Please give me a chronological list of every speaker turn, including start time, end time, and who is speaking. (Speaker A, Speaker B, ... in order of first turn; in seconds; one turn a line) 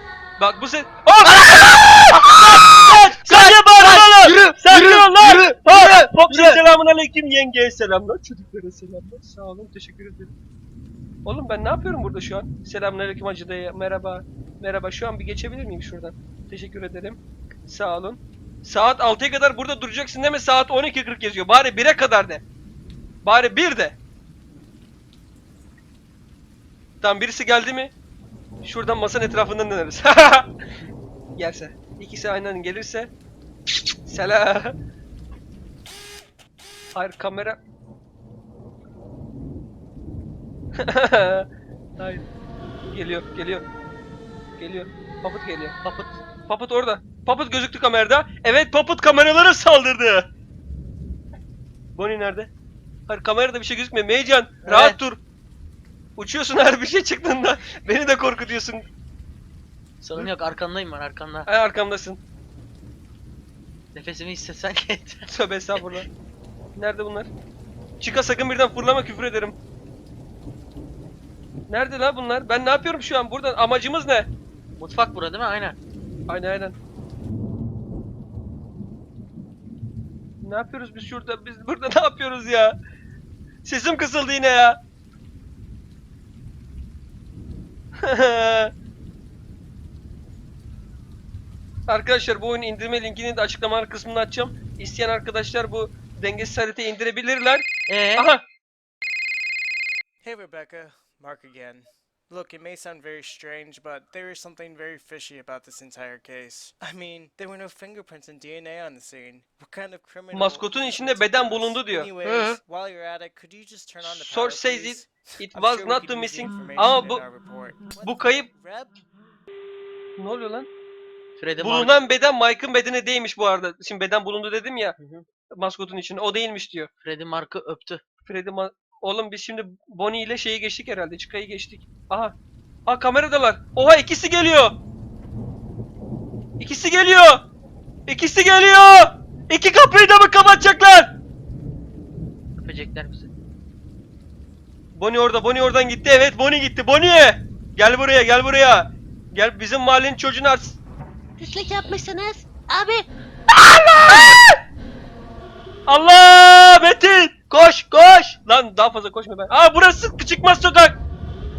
Speaker A: 0.4-10.3
Speaker B: 1.2-6.6
Speaker A: 11.2-22.4
Speaker A: 23.2-24.0
Speaker A: 27.0-27.9
Speaker A: 28.6-30.5
Speaker A: 31.4-33.1
Speaker A: 34.1-34.8
Speaker A: 36.9-37.6
Speaker A: 40.8-41.5
Speaker A: 42.0-42.3
Speaker A: 42.9-43.6
Speaker A: 44.6-45.8
Speaker B: 45.8-46.2
Speaker A: 46.5-50.3
Speaker A: 52.0-52.5
Speaker A: 53.1-55.2
Speaker B: 54.7-55.0
Speaker A: 56.2-58.9
Speaker B: 60.0-61.5
Speaker A: 61.5-62.2
Speaker B: 63.9-65.8
Speaker A: 65.3-66.1
Speaker A: 66.8-67.3
Speaker A: 68.0-69.6
Speaker A: 71.7-74.3
Speaker B: 74.8-75.8
Speaker A: 76.3-76.8
Speaker A: 80.4-82.7
Speaker A: 83.6-84.8
Speaker A: 88.1-88.7
Speaker A: 91.9-98.4
Speaker B: 97.9-98.3
Speaker C: 100.2-119.0
Speaker A: 110.3-112.1
Speaker B: 112.2-112.6
Speaker A: 114.0-117.2
Speaker A: 118.0-118.5
Speaker A: 120.2-120.7
Speaker B: 121.4-122.0
Speaker A: 121.6-126.9
Speaker B: 127.0-128.0
Speaker A: 128.2-132.3
Speaker A: 132.9-134.8
Speaker A: 136.6-137.4
Speaker A: 138.1-141.1
Speaker B: 142.6-143.3
Speaker A: 144.9-150.8
Speaker B: 151.4-153.1
Speaker B: 153.9-154.3
Speaker A: 154.0-154.4
Speaker A: 155.9-157.3
Speaker B: 157.5-158.4
Speaker A: 158.4-161.0